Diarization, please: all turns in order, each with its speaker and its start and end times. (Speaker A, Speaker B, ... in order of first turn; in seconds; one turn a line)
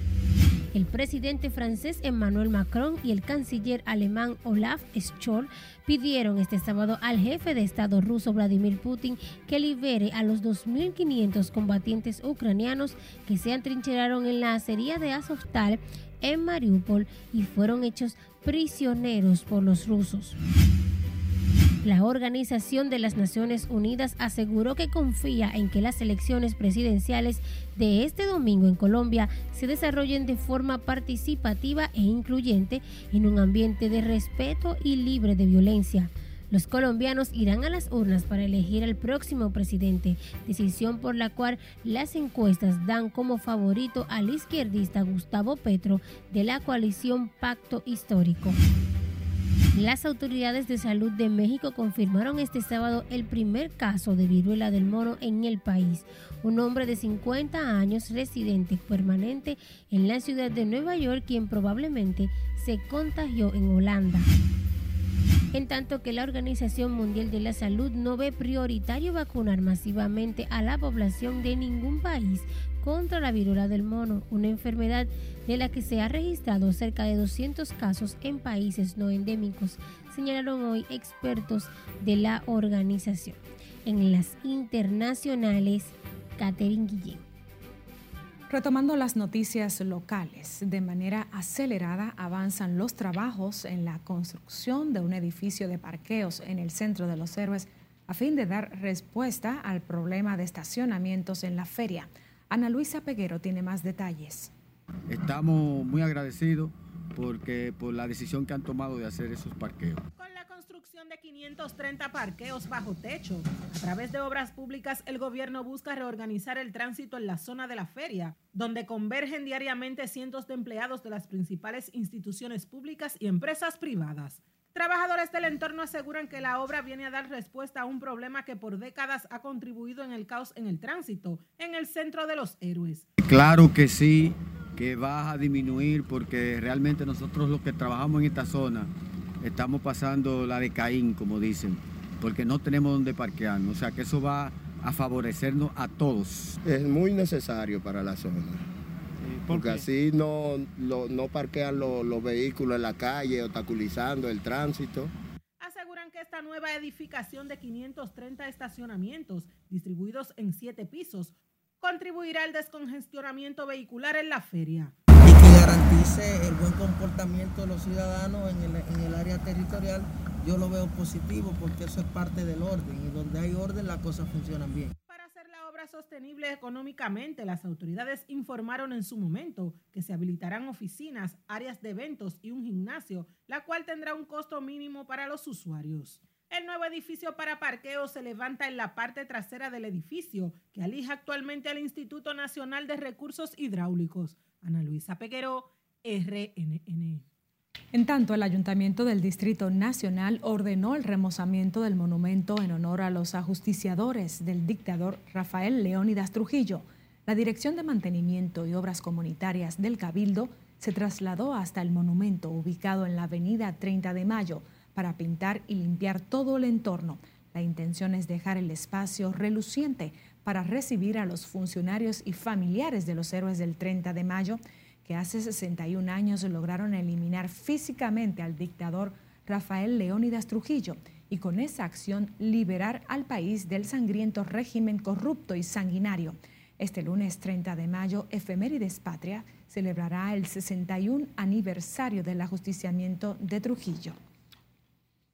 Speaker A: 0.7-20.4
Speaker A: 21.8-48.6
Speaker A: 49.7-64.3
Speaker A: 65.5-87.2
Speaker B: 88.5-104.5
Speaker C: 105.1-110.0
Speaker D: 110.2-133.1
Speaker C: 133.2-138.9
Speaker C: 139.4-146.6
Speaker E: 146.6-148.6
Speaker C: 149.2-149.8
Speaker E: 149.5-155.1
Speaker D: 155.6-164.9
Speaker F: 165.2-174.9
Speaker D: 175.1-197.3
Speaker B: 197.9-244.2